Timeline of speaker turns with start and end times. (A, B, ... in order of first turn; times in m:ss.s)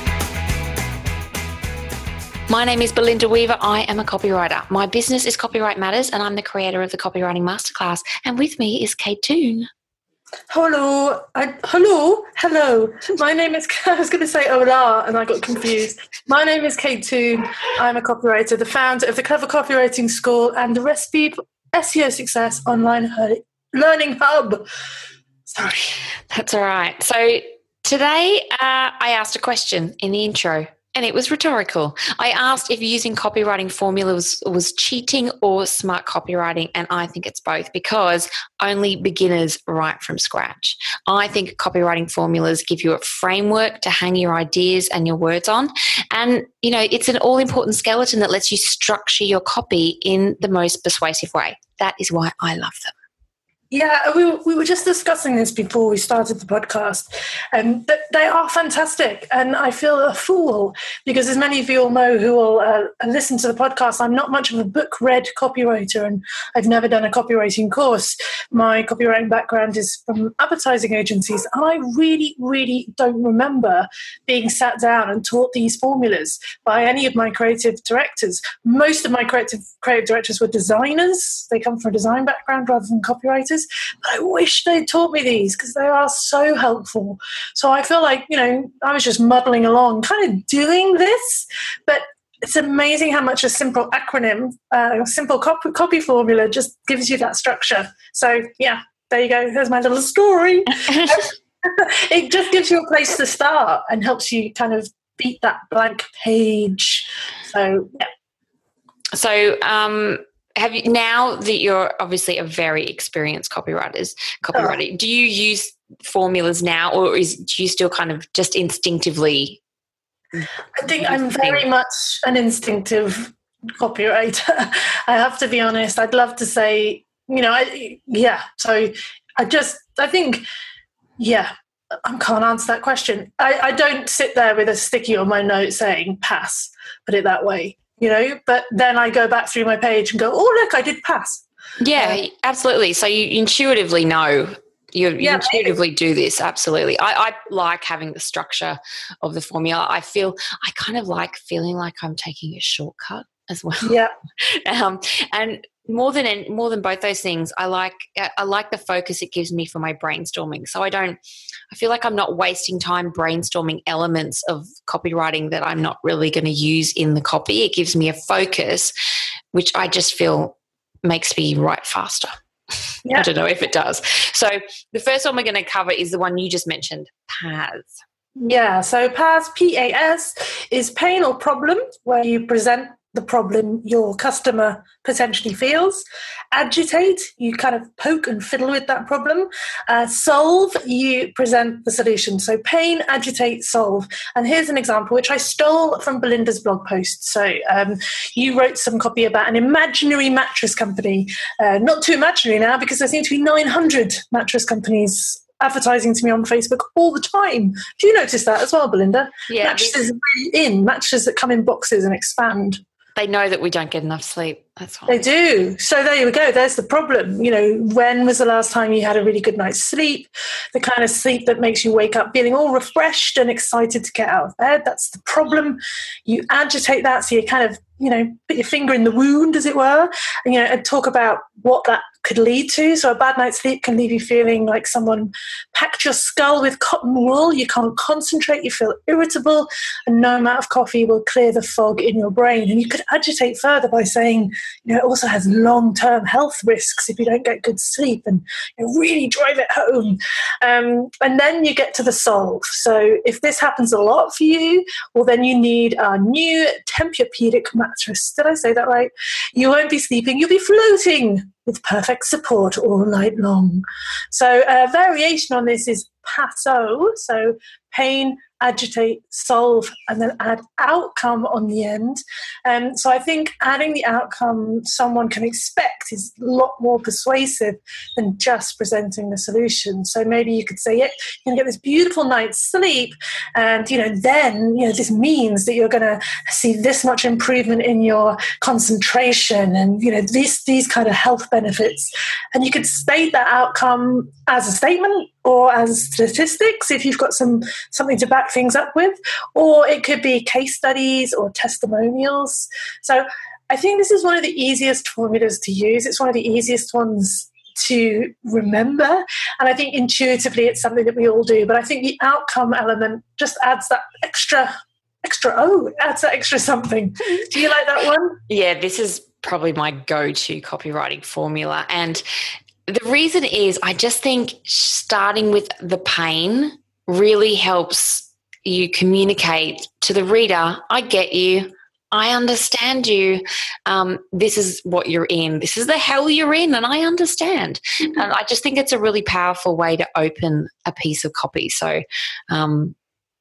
0:02.5-0:09.7 A
0:10.5-0:24.6 B
0:25.5-0:26.0 B
0:26.3-0:52.9 A
0:53.7-1:48.0 B
1:40.8-1:41.2 A
1:49.1-1:59.6 A
1:54.5-1:54.8 B
2:00.4-2:01.7 A
2:00.8-2:10.4 B
2:11.2-2:11.5 B
2:12.0-2:21.4 B
2:21.8-2:33.9 A
2:22.0-2:22.2 B
2:25.2-2:25.8 B
2:33.8-2:34.1 B
2:34.6-2:41.2 A
2:41.7-2:48.9 A
2:49.5-2:52.3 A
2:53.1-2:58.0 A
2:58.4-3:32.8 B
3:29.5-3:30.0 A
3:33.2-3:35.2 A
3:35.1-5:14.7 B
5:15.2-5:18.4 B
5:18.5-5:22.2 A
5:22.9-5:42.9 A